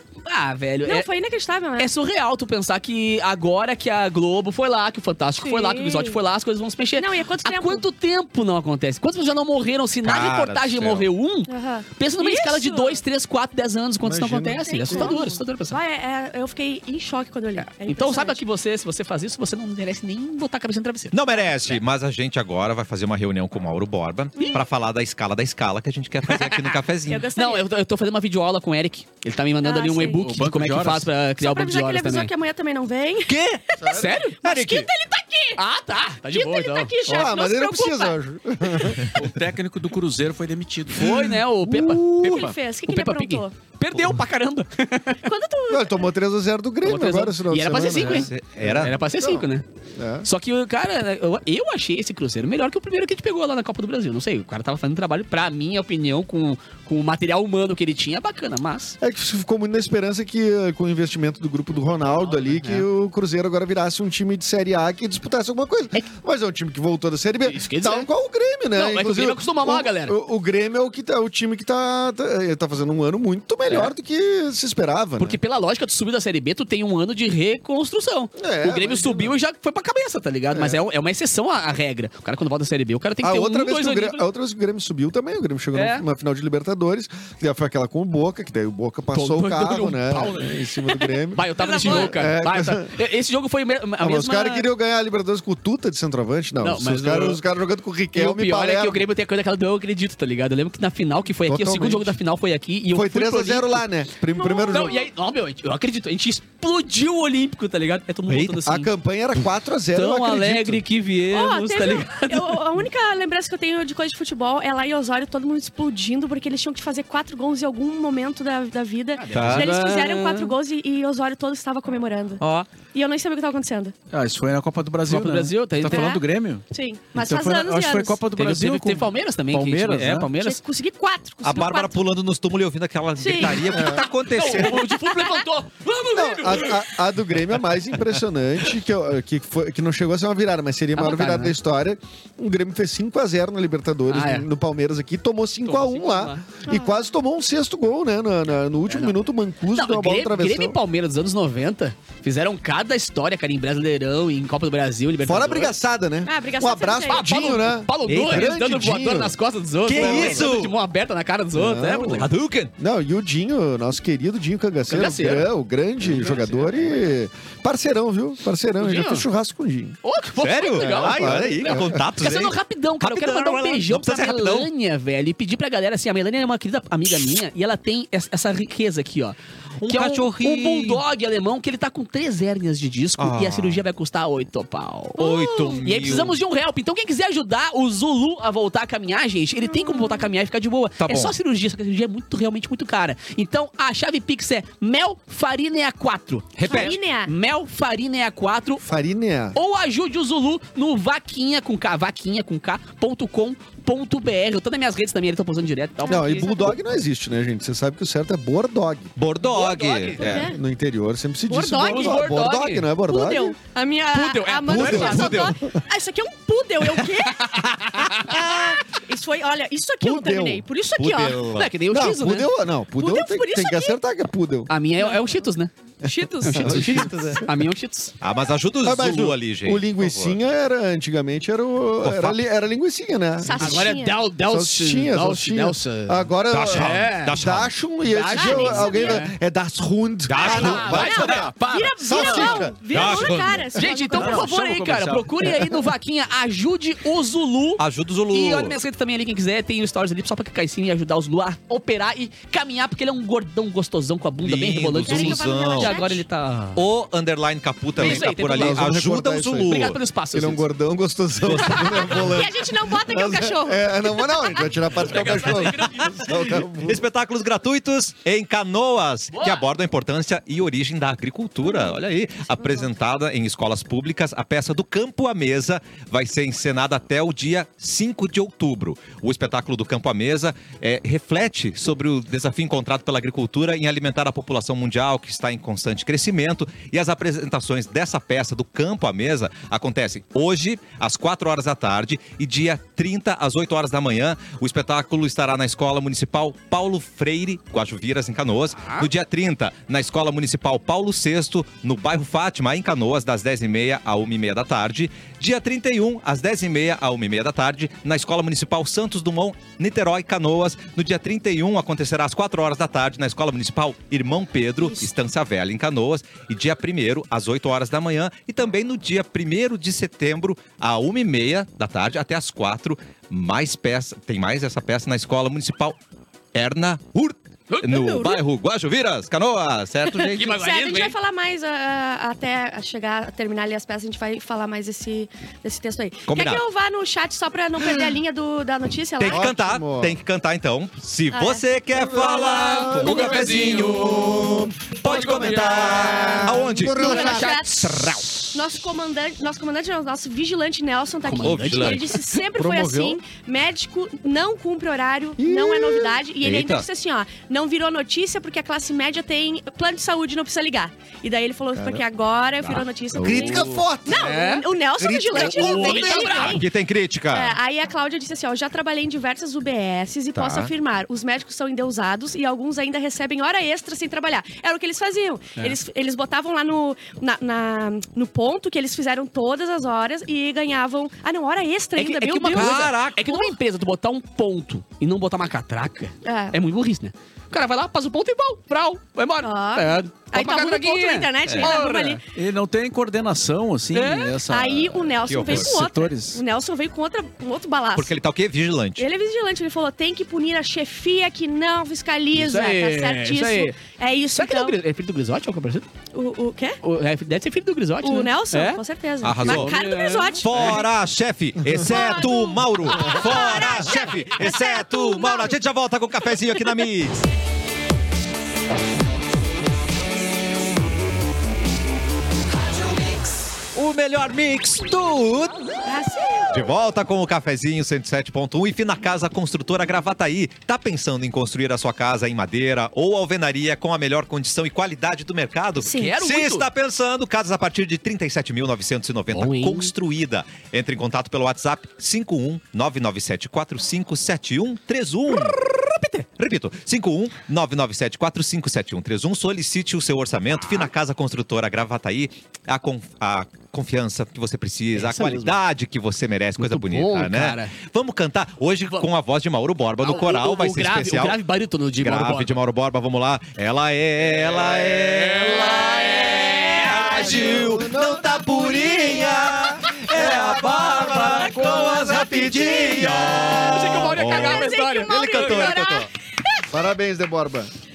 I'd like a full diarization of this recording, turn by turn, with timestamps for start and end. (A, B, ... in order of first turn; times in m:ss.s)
0:00.2-0:01.1 A
0:00.8-0:01.9 B
0:01.8-0:15.8 A
0:05.4-0:06.2 B
0:07.0-0:07.8 B
0:10.0-0:11.1 C
0:11.5-0:13.0 B
0:14.0-0:15.2 D
0:14.6-0:18.4 B
0:17.6-0:21.8 A
0:21.1-0:27.3 C
0:24.4-0:24.6 B
0:26.3-0:26.8 A
0:27.1-0:27.7 B
0:27.4-0:32.3 A
0:29.6-0:30.2 B
0:30.1-0:31.1 E
0:31.4-0:35.6 B
0:33.3-0:33.9 C
0:33.8-0:34.2 D
0:33.9-0:34.4 A
0:34.4-0:34.9 C
0:35.6-0:36.9 A
0:36.3-0:38.2 B
0:37.0-0:39.1 D
0:38.7-0:39.1 B
0:39.2-0:41.5 E
0:40.9-0:45.2 A
0:42.1-0:43.5 B
0:45.2-0:46.1 B
0:45.7-0:50.3 D
0:46.8-0:49.6 A
0:47.9-0:49.0 C
0:50.2-0:59.0 A
0:59.0-1:15.4 D
1:02.3-1:02.9 A
1:07.4-1:08.1 A
1:08.7-1:10.2 A
1:15.2-1:24.2 A
1:18.4-1:19.3 D
1:20.5-1:20.8 D
1:23.2-1:33.0 D
1:25.7-1:26.0 A
1:29.1-1:34.7 A
1:31.6-1:32.2 B
1:34.0-1:39.0 D
1:36.6-1:37.4 A
1:38.1-1:43.8 A
1:41.4-1:42.2 D
1:42.9-1:45.0 D
1:44.3-1:45.1 B
1:44.7-1:48.9 A
1:48.3-1:48.6 C
1:48.6-1:50.8 D
1:49.9-1:52.6 A
1:51.3-2:04.0 B
1:59.2-2:00.6 A
1:59.3-1:59.7 C
2:04.1-2:10.3 E
2:05.1-2:06.2 A
2:05.9-2:08.2 B
2:08.4-2:10.6 A
2:10.4-2:12.0 B
2:11.4-2:14.9 C
2:13.2-2:15.5 B
2:13.6-2:14.1 D
2:14.3-2:16.9 A
2:16.1-2:30.8 D
2:21.0-2:21.6 A
2:24.1-2:24.5 A
2:25.6-2:26.4 A
2:26.7-2:26.9 B
2:28.9-2:29.2 A
2:29.7-2:35.8 A
2:35.2-2:39.4 D
2:36.2-2:37.3 B
2:37.1-2:42.3 A
2:38.1-2:38.5 C
2:39.8-2:40.7 C
2:40.0-2:40.5 D
2:41.6-2:42.3 D
2:42.2-2:42.7 C
2:42.8-2:50.0 D
2:44.9-2:45.5 A
2:46.0-2:46.9 A
2:48.8-2:49.3 A
2:50.0-3:05.2 A
2:50.4-2:54.7 C
2:50.8-2:52.0 D
2:59.8-3:01.0 C
3:03.2-3:03.8 C
3:05.2-3:05.8 B
3:05.2-3:06.4 C
3:05.8-3:18.8 A
3:09.6-3:10.3 B
3:11.0-3:11.4 C
3:16.6-3:16.9 C
3:16.7-3:17.3 B
3:18.8-3:19.6 D
3:19.6-3:26.7 A
3:26.0-3:26.7 B
3:26.1-3:29.1 D
3:29.2-3:30.5 C
3:29.4-3:30.4 A
3:30.2-3:30.6 B
3:30.2-3:33.6 D
3:31.5-3:32.4 B
3:31.8-3:32.9 A
3:33.1-3:41.4 B
3:34.1-3:35.5 A
3:34.7-3:35.8 D
3:34.8-3:35.5 C
3:38.0-3:38.3 A
3:38.1-3:38.8 C
3:40.0-3:40.6 D
3:41.0-3:41.7 C
3:41.5-3:42.5 A
3:41.9-3:44.7 D
3:43.0-3:44.0 B
3:44.7-3:48.1 A
3:46.1-3:47.1 B
3:46.5-3:47.5 D
3:46.7-3:47.4 C
3:48.2-3:50.4 C
3:48.8-4:03.2 D
3:52.0-3:52.4 C
3:53.4-3:54.2 B
3:53.6-3:57.4 A
3:56.5-3:57.8 C
3:58.0-3:59.4 A
3:58.3-3:59.2 B
4:00.3-4:01.3 C
4:00.4-4:02.6 A
4:00.4-4:04.5 B
4:01.0-4:02.4 E
4:02.8-4:03.7 C
4:03.7-4:16.8 A
4:04.1-4:05.8 E
4:07.8-4:08.8 C
4:14.4-4:16.1 C
4:15.0-4:16.2 B
4:16.8-4:20.0 C
4:18.0-4:18.8 A
4:18.0-4:27.0 D
4:19.6-4:20.6 A
4:21.4-4:22.4 C
4:21.8-4:24.7 B
4:24.9-4:26.4 A
4:26.2-5:26.0 C
4:29.3-4:29.6 A
4:32.6-4:32.9 B
4:58.8-4:59.1 A
5:14.8-5:15.1 B
5:26.5-5:30.6 C
5:27.7-5:28.2 A
5:27.9-5:28.4 B
5:30.2-5:39.5 B
5:30.3-5:31.2 A
5:36.3-5:36.6 C
5:39.2-5:48.6 C
5:39.2-5:40.2 D
5:41.3-5:43.5 B
5:42.0-5:47.6 D
5:42.5-5:48.2 A
5:46.9-5:47.8 B
5:48.5-6:06.6 B
5:51.2-5:52.2 A
5:51.4-5:52.2 C
5:52.5-5:53.2 D
5:55.4-5:56.2 D
5:56.4-5:56.9 C
6:01.8-6:02.0 D
6:03.1-6:06.5 D
6:03.2-6:03.9 C
6:04.1-6:04.7 A
6:05.3-6:06.6 A
6:05.8-6:07.6 C
6:07.3-6:23.5 B
6:10.4-6:10.7 C
6:22.0-6:32.2 A
6:22.5-6:23.2 C
6:26.2-6:26.6 B
6:29.4-6:32.2 B
6:31.4-6:31.8 C
6:32.3-6:36.4 E
6:34.0-6:34.3 A
6:34.0-6:38.2 B
6:35.3-6:35.8 C
6:38.0-6:39.1 C
6:39.0-6:44.8 B
6:42.3-6:43.8 A
6:44.4-6:45.9 A
6:46.1-6:46.8 B
6:46.8-6:48.8 A
6:48.0-6:50.8 B
6:49.2-6:49.8 C
6:49.4-6:50.8 A
6:50.4-6:57.2 C
6:51.8-6:55.5 B
7:03.7-7:05.6 C
7:05.9-7:06.6 B
7:06.5-7:25.6 C
7:15.8-7:16.7 A
7:15.8-7:16.1 B
7:19.3-7:19.9 A
7:25.3-7:26.2 A
7:26.4-7:41.4 C
7:35.0-7:35.5 A
7:36.6-7:37.7 A
7:40.0-7:42.5 A
7:42.0-7:56.1 C
7:44.8-7:47.3 A
7:46.9-7:48.8 D
7:50.2-7:51.0 D
7:51.2-7:56.7 B
7:53.6-7:55.9 A
7:56.7-7:57.7 D